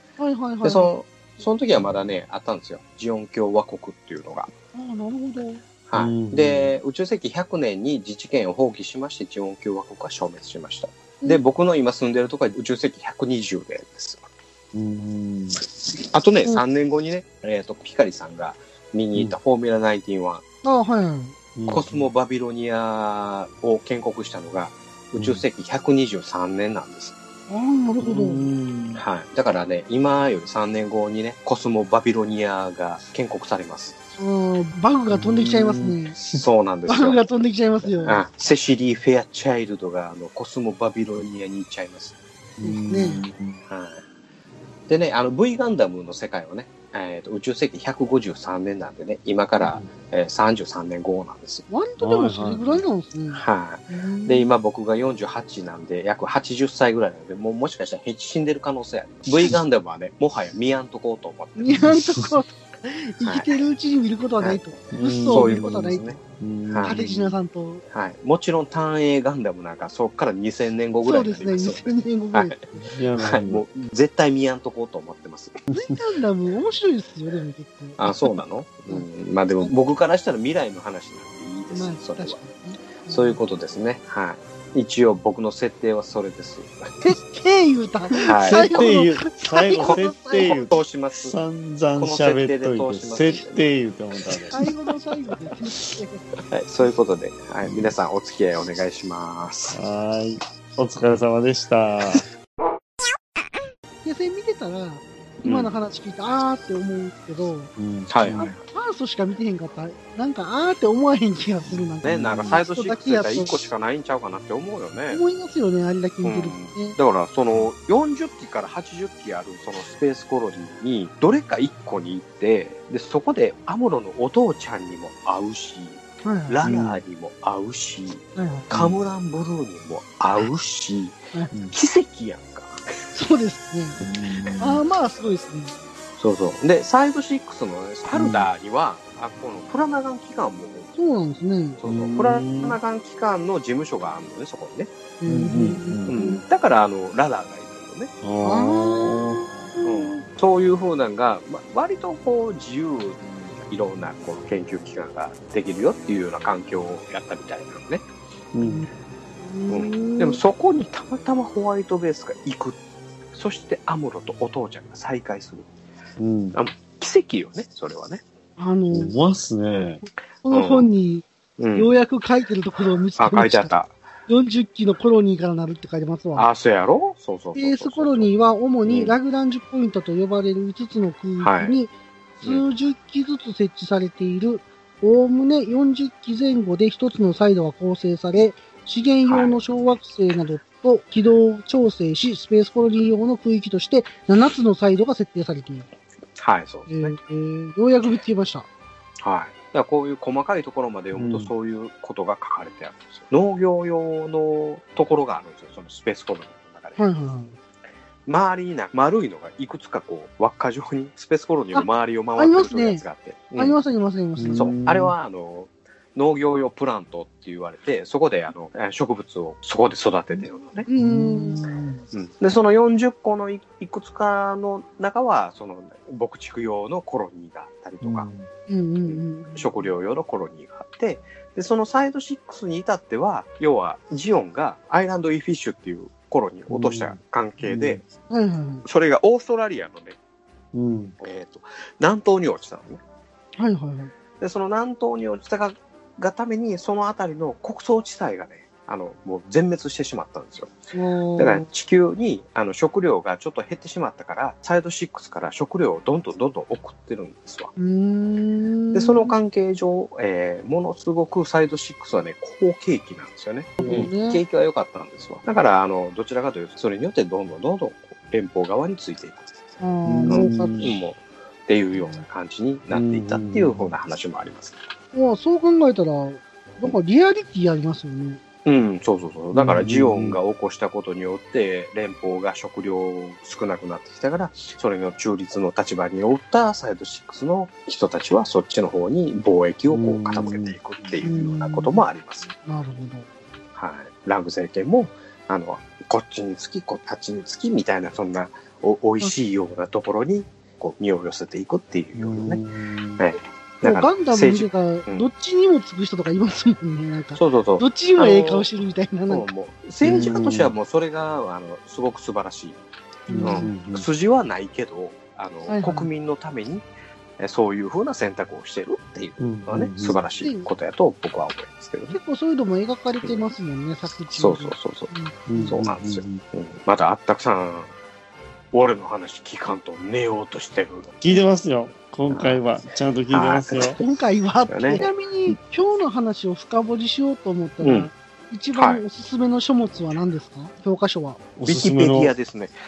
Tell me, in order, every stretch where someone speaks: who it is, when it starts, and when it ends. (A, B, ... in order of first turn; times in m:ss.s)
0:00.2-0:00.9 A
0:00.6-0:04.5 B
0:04.7-0:05.6 A
0:05.9-0:14.2 B
0:05.9-0:06.7 C
0:14.7-0:15.6 C
0:16.1-0:20.4 B
0:20.6-0:21.3 A
0:21.6-0:22.0 C
0:21.7-0:27.1 B
0:25.2-0:25.4 C
0:27.5-0:28.5 A
0:28.0-0:29.0 C
0:29.0-0:34.0 B
0:34.2-0:36.2 A
0:35.1-0:36.4 C
0:36.3-0:37.2 B
0:36.9-0:38.2 A
0:38.0-0:42.2 B
0:42.6-0:43.2 A
0:42.6-0:43.6 C
0:43.7-0:44.0 B
0:44.9-0:51.6 B
0:49.6-0:49.9 C
0:51.7-0:54.5 A
0:52.0-0:52.8 C
0:53.3-1:01.9 B
1:01.6-1:06.1 A
1:01.8-1:02.3 C
1:03.2-1:03.5 B
1:04.9-1:07.3 C
1:05.2-1:07.0 B
1:06.8-1:07.8 A
1:07.9-1:12.6 B
1:11.0-1:12.8 A
1:12.8-1:13.6 C
1:13.2-1:15.6 B
1:15.7-1:18.4 A
1:18.0-1:22.4 B
1:21.7-1:23.3 A
1:23.0-1:26.7 B
1:27.0-1:30.6 A
1:28.2-1:34.6 C
1:28.2-1:28.9 B
1:29.8-1:31.3 B
1:31.9-1:33.6 B
1:34.5-1:36.2 A
1:36.5-1:39.8 B
1:37.6-1:37.9 C
1:39.7-1:42.2 C
1:44.0-1:47.7 A
1:45.4-1:45.7 B
1:47.8-1:48.6 C
1:48.1-1:48.6 B
1:48.3-1:53.7 A
1:52.0-1:55.2 B
1:52.1-1:52.5 C
1:55.1-1:57.0 A
1:56.2-2:12.8 B
2:06.2-2:06.6 A
2:06.6-2:07.0 C
2:08.4-2:08.7 A
2:08.7-2:09.0 C
2:11.5-2:11.8 C
2:13.1-2:14.0 A
2:14.0-2:14.8 C
2:14.6-2:15.7 A
2:16.2-2:20.9 B
2:18.1-2:18.5 C
2:21.0-2:21.8 A
2:21.8-2:24.9 B
2:21.8-2:22.8 C
2:25.2-2:26.4 A
2:25.2-2:26.4 C
2:26.0-2:28.1 B
2:28.2-2:29.4 C
2:28.4-2:30.2 A
2:29.8-2:38.0 B
2:38.5-2:38.8 C
2:38.6-2:40.4 A
2:39.7-2:42.8 B
2:43.3-2:45.7 B
2:46.2-2:46.6 C
2:46.5-2:48.2 B
2:48.6-2:49.2 A
2:48.9-2:50.0 C
2:50.4-2:51.2 A
2:50.5-2:50.9 B
2:51.6-2:51.9 B
2:51.7-2:53.7 A
2:53.1-2:54.0 B
2:54.3-2:56.5 A
2:56.3-2:58.3 B
2:57.5-3:15.9 A
2:58.8-2:59.2 B
3:01.4-3:01.7 B
3:09.2-3:09.6 B
3:16.4-3:17.2 B
3:16.9-3:18.6 A
3:19.2-3:27.0 B
3:21.1-3:21.5 C
3:27.0-3:27.6 A
3:28.2-3:33.8 B
3:31.7-3:33.0 A
3:33.6-3:34.7 A
3:34.4-3:35.1 C
3:34.5-3:40.9 B
3:40.9-3:41.6 A
3:40.9-3:42.0 C
3:42.1-3:48.3 B
3:48.0-3:48.5 C
3:48.7-3:49.7 A
3:49.0-3:58.0 B
3:56.7-3:58.0 C
3:58.3-3:58.8 A
3:58.8-4:00.2 B
4:00.7-4:01.1 C
4:01.2-4:03.0 B
4:03.6-4:04.1 A
4:04.4-4:10.7 B
4:10.9-4:11.6 A
4:11.4-4:17.7 B
4:17.8-4:19.3 A
4:18.9-4:29.6 B
4:23.8-4:24.4 A
4:23.8-4:24.1 C
4:29.8-4:30.8 A
4:30.0-4:30.9 C
4:30.3-4:34.8 B
4:32.9-4:33.9 C
4:35.1-4:38.4 A
4:38.6-4:52.5 B
4:39.5-4:40.4 C
4:49.9-4:50.8 C
4:51.2-4:52.0 A
4:52.6-4:53.3 A
4:53.7-5:02.6 B
5:02.2-5:03.2 C
5:03.2-5:05.3 B
5:03.8-5:09.5 A
5:07.3-5:08.7 B
5:09.3-5:12.8 B
5:10.0-5:10.7 C
5:13.3-5:14.0 C
5:13.3-5:13.7 A
5:13.4-5:16.9 B
5:15.7-5:16.1 A
5:17.4-5:22.2 B
5:19.4-5:20.2 C
5:20.4-5:20.7 A
5:22.1-5:25.8 A
5:24.3-5:25.1 B
5:25.5-5:26.4 C
5:25.7-5:27.9 B
5:28.7-5:31.1 B
5:31.2-5:34.0 C
5:32.3-5:32.6 B
5:33.3-5:34.0 B
5:33.9-5:41.4 A
5:34.7-5:35.0 B
5:37.8-5:38.1 B
5:38.7-5:39.0 B
5:41.6-5:42.3 C
5:41.7-5:42.8 B